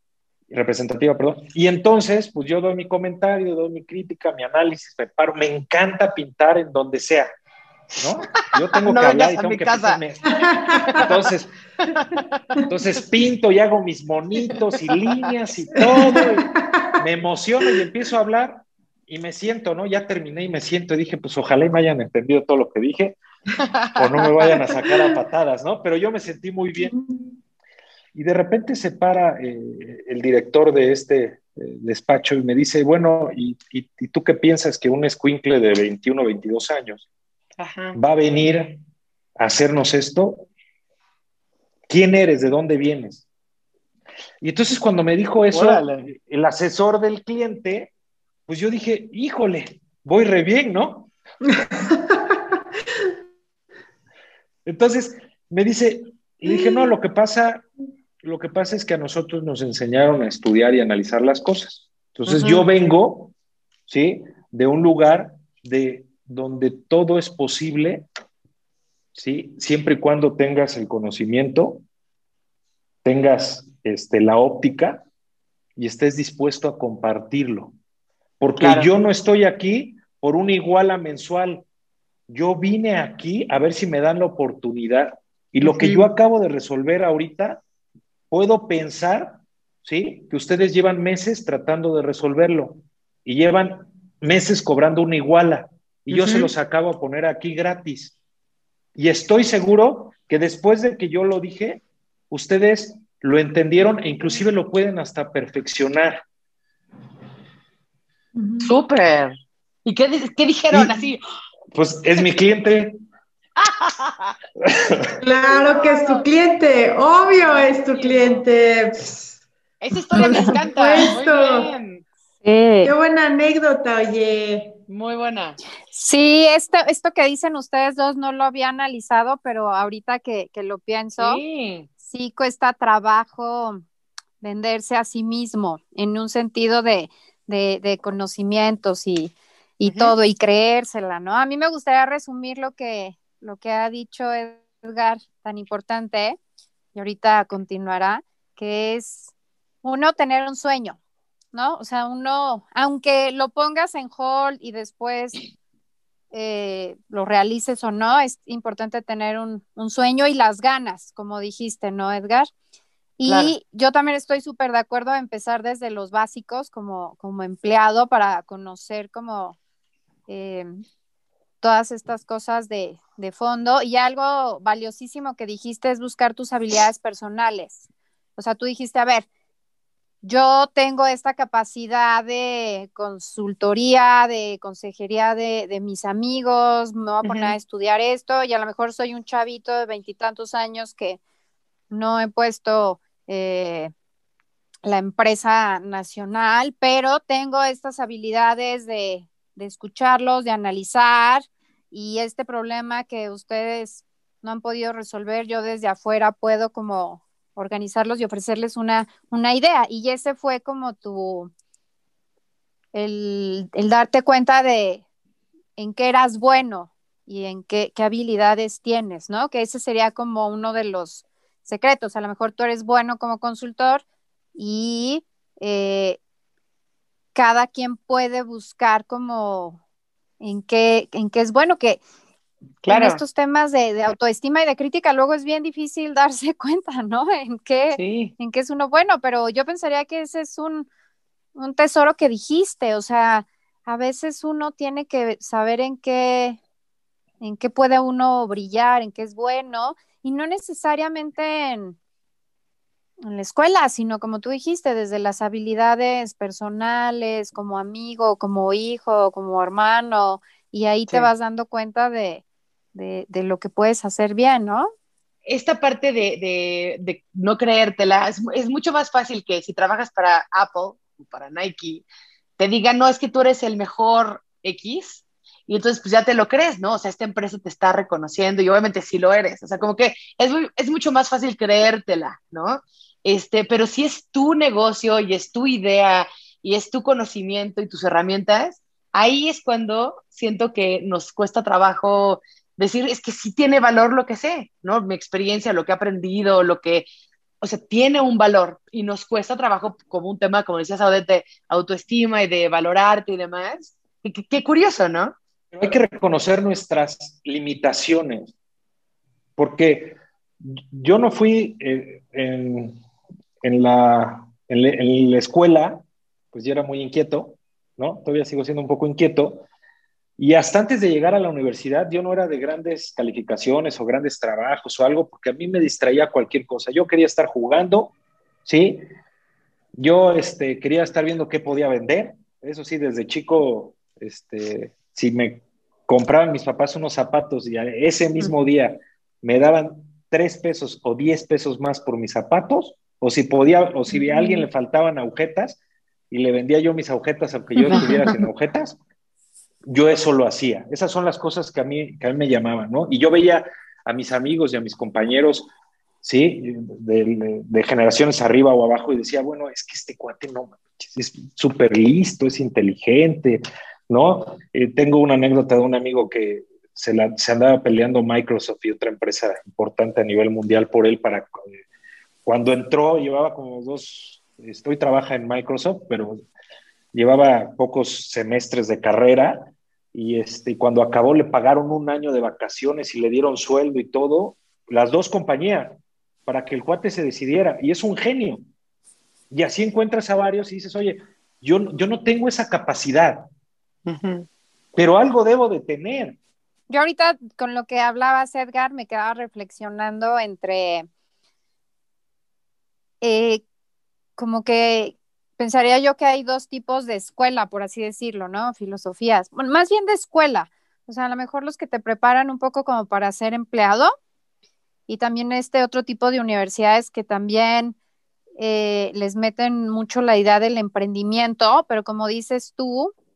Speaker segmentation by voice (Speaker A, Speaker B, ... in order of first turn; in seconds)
Speaker A: 0.5-7.3, 8.0-11.5, 12.7-23.2, 23.9-26.9, 28.1-37.1, 37.9-38.8, 39.4-40.5, 41.9-43.2, 44.4-47.9, 48.5-51.1, 54.6-57.6, 58.2-63.3, 63.9-68.0, 69.1-71.8, 73.0-75.0, 75.8-77.7, 78.4-81.6, 82.3-87.6, 88.3-98.1, 98.9-106.2, 111.7-113.0, 114.7-115.0, 305.7-308.5, 309.6-313.0, 313.6-319.6, 320.4-328.1, 328.6-329.0, 329.9-345.8, 346.3-349.0, 349.9-355.7, 356.2-371.8, 372.4-376.4, 377.1-385.9, 386.5-388.6, 389.5-393.5, 394.9-396.4
Speaker B: 8.0-10.0, 10.8-12.4, 14.5-15.3, 15.8-16.2, 23.6-24.7, 37.6-38.0, 45.5-46.0, 62.2-62.7, 78.6-78.9, 85.6-86.1, 96.1-96.5, 108.6-109.3, 109.8-111.2, 113.6-114.3, 115.5-116.2, 117.4-118.4, 119.8-122.0, 124.9-125.6, 131.2-131.9, 139.8-140.1, 163.2-163.5, 187.2-187.5, 232.8-233.2, 237.9-238.3, 265.5-272.1, 272.6-297.1, 297.6-305.3, 347.9-348.3, 394.1-394.5
Speaker C: 10.3-11.0, 15.8-16.6, 24.6-24.9, 26.8-27.3, 51.4-52.4, 56.4-56.9, 108.3-108.7, 115.2-119.4, 120.1-121.7, 122.8-124.8
Speaker D: 122.4-122.9, 125.9-131.4, 132.0-133.8, 134.4-146.4, 146.9-149.3, 149.8-151.0, 151.5-155.4, 156.3-162.5, 163.2-169.6, 170.3-170.8, 171.6-177.8, 178.4-179.3, 180.2-191.2, 191.9-193.9, 194.8-211.5, 212.9-215.0, 215.8-224.0, 224.5-226.2, 227.3-229.8, 230.4-232.0, 232.9-240.9, 241.5-246.6, 247.4-252.0, 253.2-262.4, 262.9-264.9, 396.9-401.1, 403.2-403.6, 404.4-414.1, 415.1-417.9, 418.6-423.1